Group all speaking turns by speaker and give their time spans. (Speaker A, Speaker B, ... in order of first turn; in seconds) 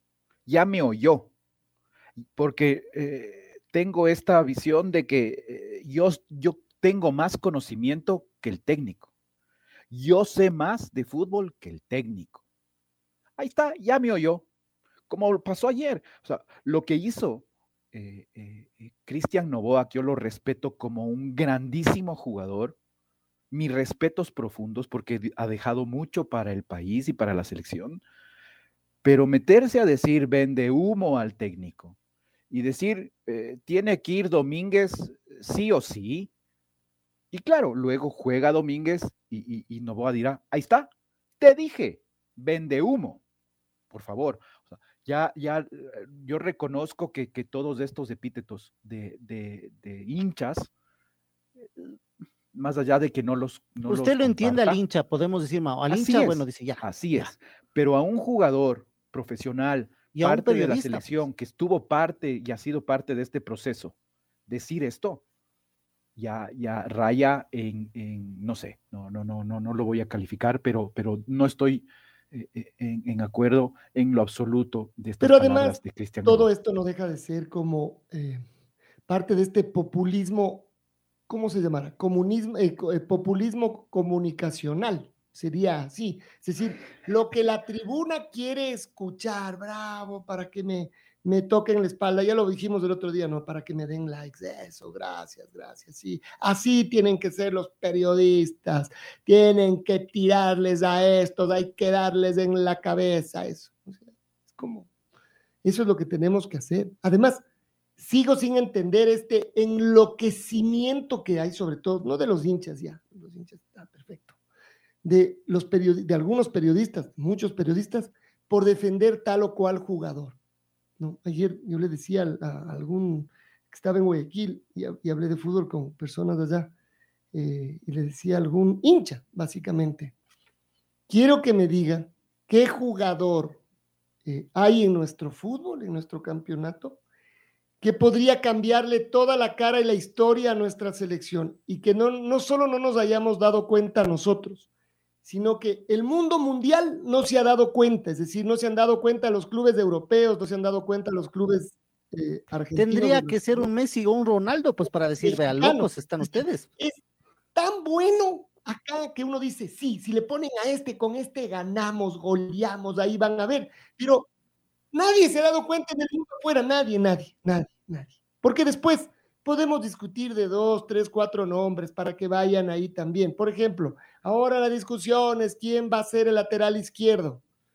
Speaker A: 0.5-1.3, 2.2-9.1, 9.9-12.4, 13.4-14.4, 15.1-22.8, 23.5-28.0, 29.0-31.9, 32.5-36.3, 37.3-40.9, 41.4-43.2, 43.9-50.7, 51.6-52.0, 52.5-54.8, 55.9-63.9, 64.5-65.2, 66.2-76.5
Speaker B: 53.9-57.3, 60.1-61.2, 152.7-156.7
Speaker C: 75.2-78.4, 79.1-80.7, 81.3-104.9, 105.6-107.4, 108.0-114.3, 115.0-120.3, 121.0-126.7, 127.3-130.1, 131.1-133.6, 134.2-137.0, 137.8-144.6, 145.2-153.7, 155.2-157.0, 157.5-164.3, 164.9-177.4